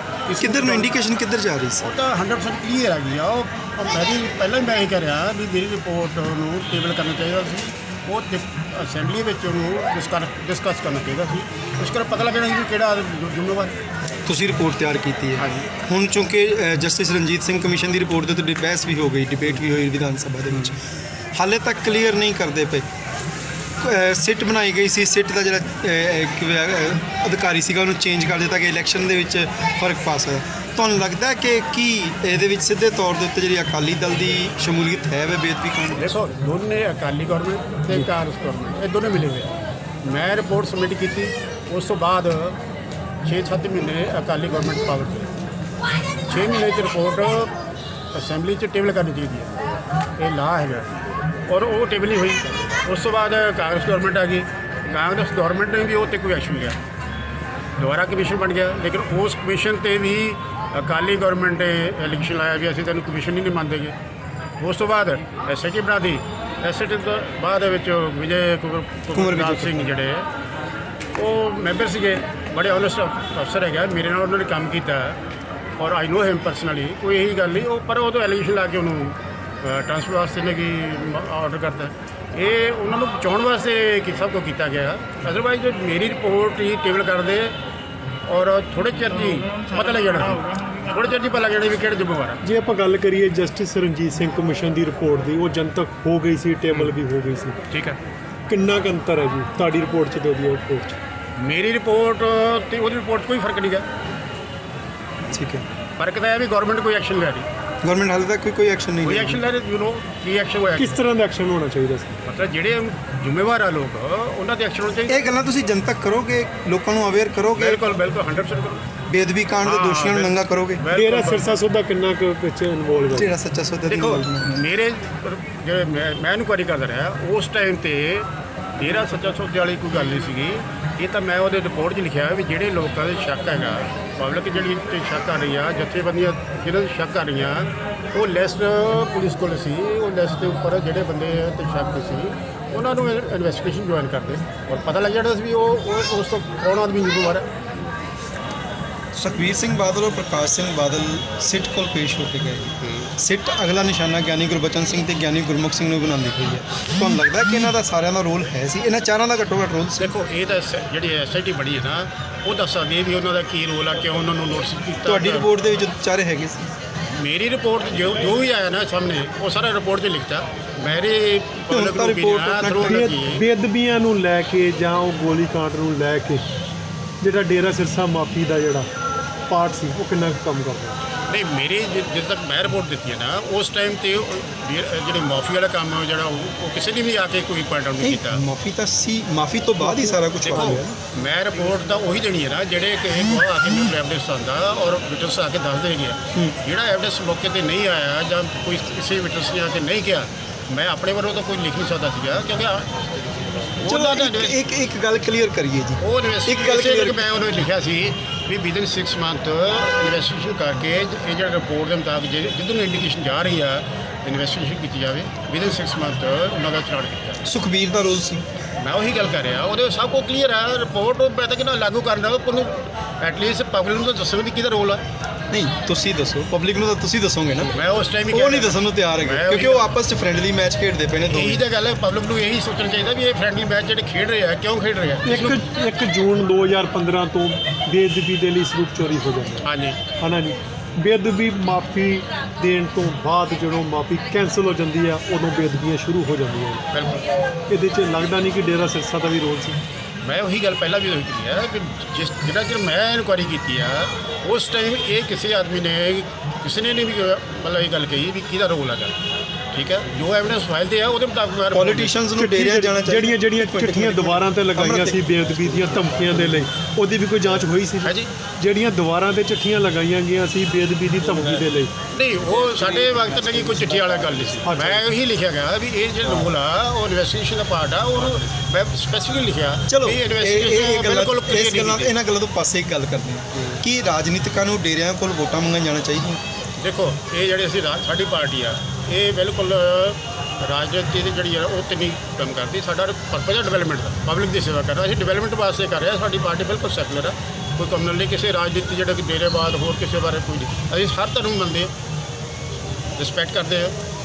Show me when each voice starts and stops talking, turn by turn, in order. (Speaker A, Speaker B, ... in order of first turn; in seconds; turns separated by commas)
Speaker A: 0.3-0.9, Speaker B: 0.4-1.9, Speaker A: 1.8-13.7, Speaker B: 14.2-20.8, Speaker A: 15.4-15.7, Speaker B: 21.3-22.9, Speaker B: 23.8-36.1, Speaker A: 35.9-39.5, Speaker A: 40.0-42.6, Speaker A: 43.2-45.3, Speaker A: 46.2-47.5, Speaker A: 48.1-50.9, Speaker A: 51.5-56.8, Speaker A: 57.8-64.0, Speaker A: 64.6-70.3, Speaker B: 69.1-69.9, Speaker A: 71.1-75.2, Speaker A: 75.8-87.6, Speaker A: 88.2-92.4, Speaker C: 92.4-97.6, Speaker A: 97.7-98.0, Speaker C: 98.5-101.0, Speaker A: 101.4-103.8, Speaker B: 105.3-105.7, Speaker A: 106.0-107.5, Speaker B: 107.8-109.4, Speaker A: 109.0-111.0, Speaker C: 110.8-112.2, Speaker A: 112.2-115.2, Speaker B: 115.1-117.8, Speaker A: 117.5-118.9, Speaker B: 119.1-120.8, Speaker A: 119.6-121.6, Speaker C: 120.9-123.3, Speaker B: 123.1-124.6, Speaker A: 123.9-147.5, Speaker B: 149.1-160.1, Speaker A: 152.8-153.1, Speaker A: 160.0-165.5, Speaker B: 165.0-166.6, Speaker A: 167.1-173.4, Speaker B: 171.7-173.0, Speaker C: 172.8-176.4, Speaker C: 177.2-178.9, Speaker C: 179.5-180.9, Speaker A: 181.3-188.4, Speaker B: 188.0-190.9, Speaker C: 189.8-190.9, Speaker A: 190.4-204.6, Speaker B: 203.8-207.2, Speaker A: 206.0-217.4, Speaker B: 217.4-218.4, Speaker A: 218.8-225.0, Speaker B: 225.5-227.7, Speaker A: 227.7-229.9, Speaker B: 228.3-231.6, Speaker A: 231.3-235.6, Speaker C: 235.2-239.6, Speaker A: 239.6-240.0, Speaker C: 240.2-246.8, Speaker A: 246.9-247.2, Speaker C: 247.7-249.8, Speaker A: 250.2-259.1, Speaker A: 259.7-262.2, Speaker B: 261.7-266.0, Speaker C: 262.4-271.9, Speaker A: 268.0-268.3, Speaker A: 272.1-282.1, Speaker C: 274.6-275.0, Speaker B: 279.9-286.4, Speaker A: 286.8-301.9, Speaker A: 303.1-304.0